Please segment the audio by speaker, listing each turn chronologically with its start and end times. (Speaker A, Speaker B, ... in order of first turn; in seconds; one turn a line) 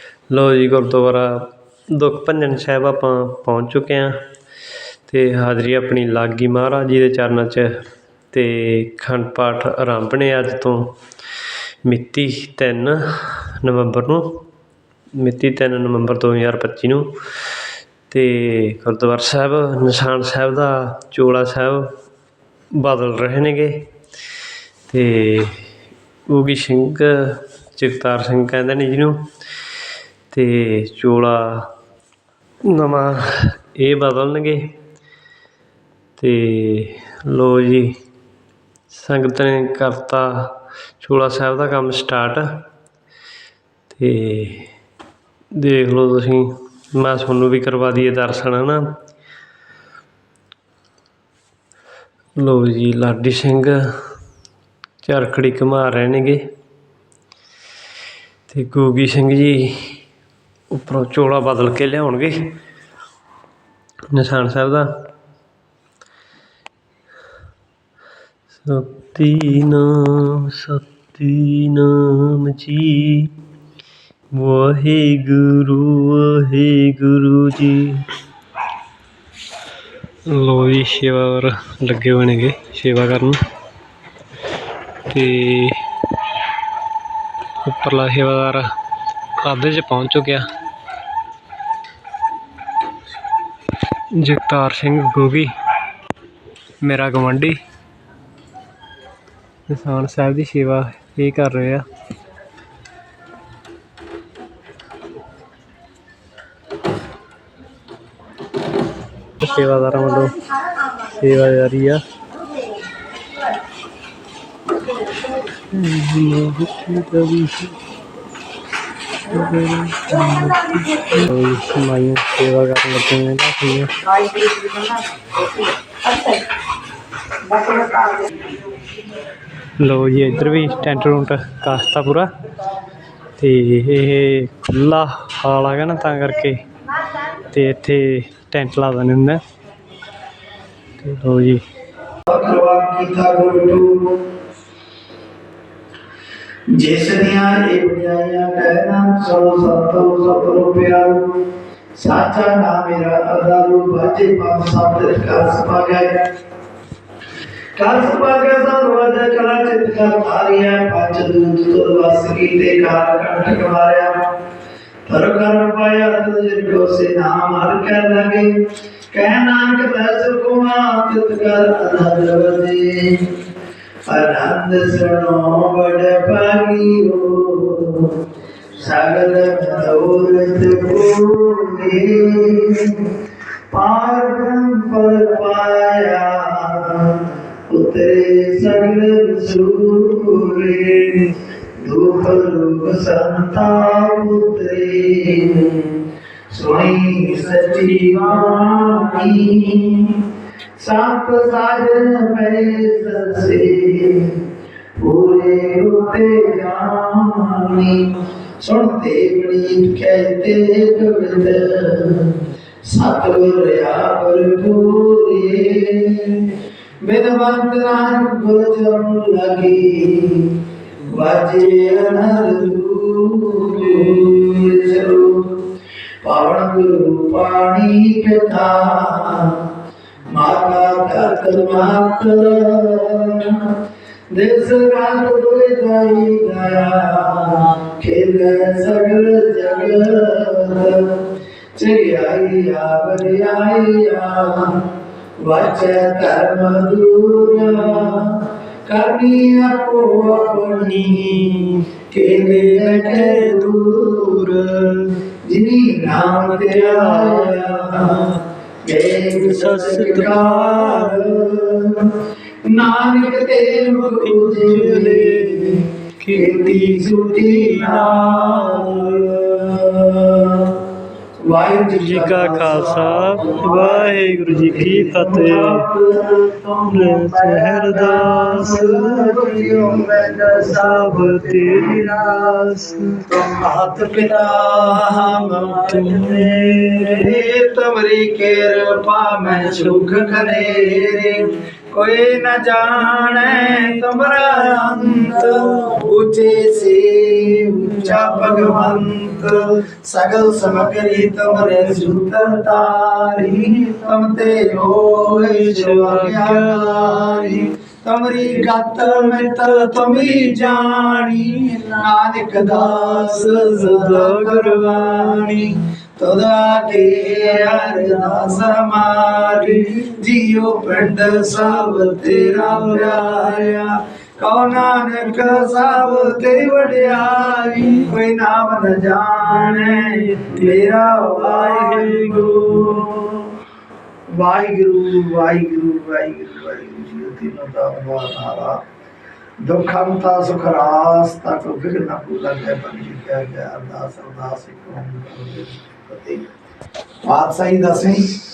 Speaker A: 0.3-4.1
Speaker A: 5.0-7.7
Speaker A: 8.3-10.9
Speaker A: 11.9-14.4
Speaker A: 15.2-17.1
Speaker A: 18.1-21.9
Speaker A: 22.8-23.7
Speaker A: 24.9-25.5
Speaker A: 26.3-29.2
Speaker A: 30.3-31.6
Speaker A: 32.7-34.7
Speaker A: 36.2-37.9
Speaker A: 38.9-40.5
Speaker A: 41.0-42.5
Speaker A: 43.9-44.7
Speaker A: 45.5-48.8
Speaker A: 52.4-53.8
Speaker A: 55.0-56.4
Speaker A: 58.5-60.0
Speaker A: 60.7-62.4
Speaker A: 64.1-64.9
Speaker A: 68.6-73.3
Speaker A: 74.4-78.0
Speaker A: 80.3-83.4
Speaker A: 85.1-85.8
Speaker A: 87.6-88.7
Speaker A: 89.4-90.5
Speaker A: 94.2-95.5
Speaker A: 96.8-97.6
Speaker A: 99.7-101.8
Speaker A: 109.4-110.4
Speaker A: 111.1-112.0
Speaker A: 115.7-117.8
Speaker A: 119.3-123.9
Speaker A: 129.8-132.3
Speaker A: 133.4-136.6
Speaker A: 137.5-139.4
Speaker A: 141.0-141.6
Speaker B: 142.3-144.1
Speaker B: 146.8-151.3
Speaker B: 152.0-156.2
Speaker B: 157.8-164.2
Speaker B: 165.1-168.5
Speaker B: 169.1-173.3
Speaker B: 174.1-178.2
Speaker B: 178.8-183.1
Speaker B: 183.7-195.9
Speaker B: 196.5-200.2
Speaker B: 200.8-204.4
Speaker B: 205.0-212.3
Speaker B: 212.9-220.5
Speaker B: 221.1-225.5
Speaker B: 226.2-229.7
Speaker B: 230.3-233.7
Speaker B: 234.3-241.2
Speaker B: 241.8-244.8
Speaker B: 245.4-251.5
Speaker A: 250.7-251.8
Speaker B: 252.1-254.4
Speaker A: 252.4-255.1
Speaker B: 255.5-262.0
Speaker A: 256.2-257.6
Speaker A: 259.3-261.4
Speaker B: 262.7-265.8
Speaker A: 264.0-269.3
Speaker B: 266.3-270.8
Speaker B: 271.5-281.9
Speaker A: 271.9-275.9
Speaker A: 276.9-279.5
Speaker A: 280.6-283.3
Speaker B: 283.3-333.4
Speaker A: 285.9-287.3
Speaker A: 289.6-290.5
Speaker A: 293.4-294.8
Speaker A: 295.3-296.0
Speaker A: 298.0-299.0
Speaker A: 305.2-307.6
Speaker A: 308.6-311.8
Speaker A: 312.6-315.6
Speaker A: 321.9-323.6
Speaker A: 327.7-328.1
Speaker A: 329.6-333.0
Speaker B: 334.4-338.8
Speaker B: 339.6-346.4
Speaker B: 347.2-348.2